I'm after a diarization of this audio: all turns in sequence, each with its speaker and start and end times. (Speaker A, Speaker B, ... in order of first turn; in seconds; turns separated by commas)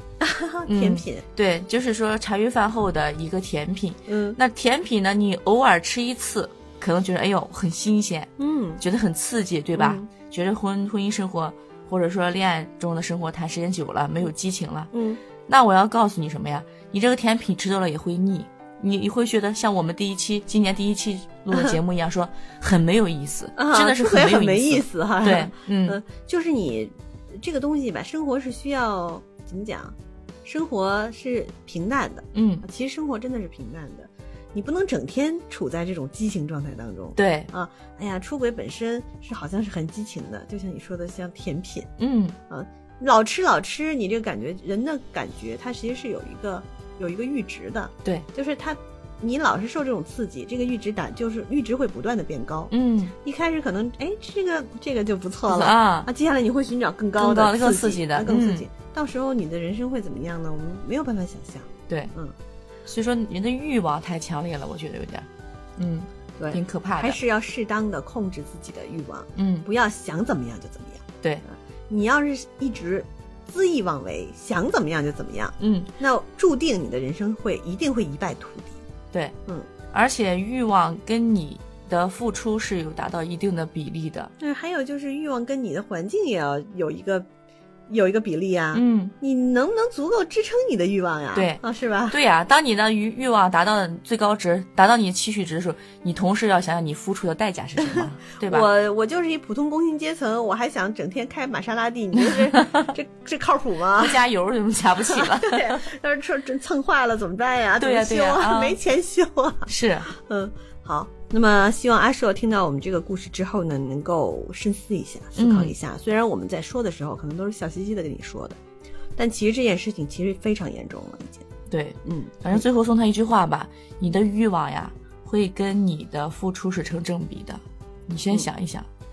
Speaker A: 0.2-1.2, Speaker B: 0.7-8.3, Speaker A: 4.1-4.4, Speaker A: 8.4-8.8, Speaker B: 8.8-14.9, Speaker A: 9.7-10.1, Speaker A: 14.9-15.2, Speaker B: 15.4-26.0, Speaker A: 23.6-41.9, Speaker B: 32.3-32.6, Speaker B: 37.1-37.5, Speaker B: 42.0-42.4, Speaker A: 42.5-62.3, Speaker B: 52.7-53.1, Speaker B: 55.5-56.1, Speaker B: 57.1-58.7, Speaker B: 62.9-67.2, Speaker A: 66.4-78.8, Speaker B: 69.3-69.7, Speaker B: 75.6-75.9, Speaker B: 79.9-84.3, Speaker A: 84.4-87.3, Speaker A: 87.9-92.2, Speaker B: 88.7-89.1, Speaker B: 91.3-98.7, Speaker A: 97.8-104.2, Speaker B: 102.3-102.9, Speaker B: 104.0-105.8, Speaker A: 105.1-118.6, Speaker B: 107.8-108.8, Speaker B: 109.7-110.1, Speaker B: 115.3-115.7, Speaker A: 119.2-121.5, Speaker B: 121.7-128.9, Speaker A: 122.0-122.6